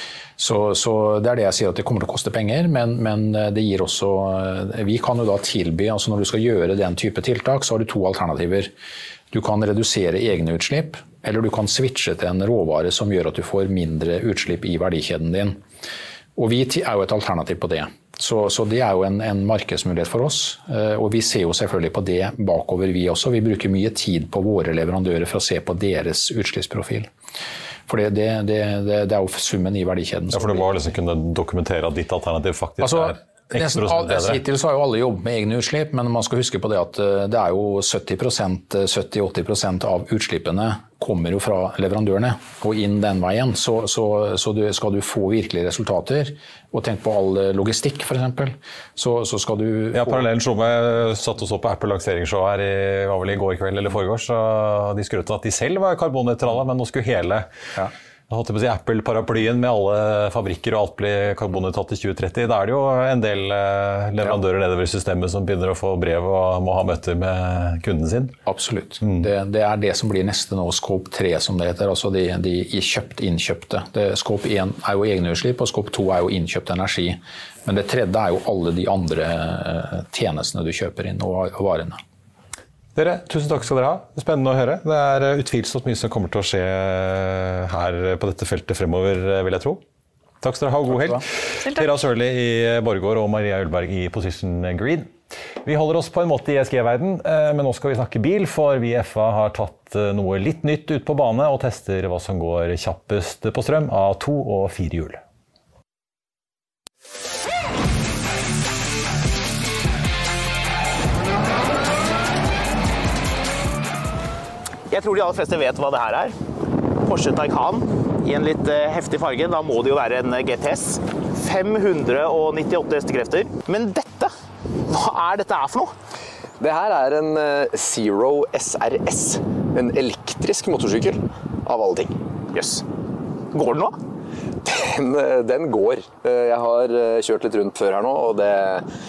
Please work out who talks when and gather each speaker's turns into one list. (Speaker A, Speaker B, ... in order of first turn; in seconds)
Speaker A: 0.4-8.7, 9.3-15.6, 16.4-27.1, 27.9-30.7, 32.8-50.2, 68.5-82.0, 90.9-91.2
Speaker B: 30.3-34.4, 49.9-57.5, 58.3-68.3, 69.0-69.3, 83.0-89.8, 90.4-95.1, 95.6-105.2
Speaker C: 114.9-116.3, 117.0-124.3, 124.9-125.9, 132.6-132.8, 133.5-133.9
Speaker D: 126.6-132.2, 134.6-138.9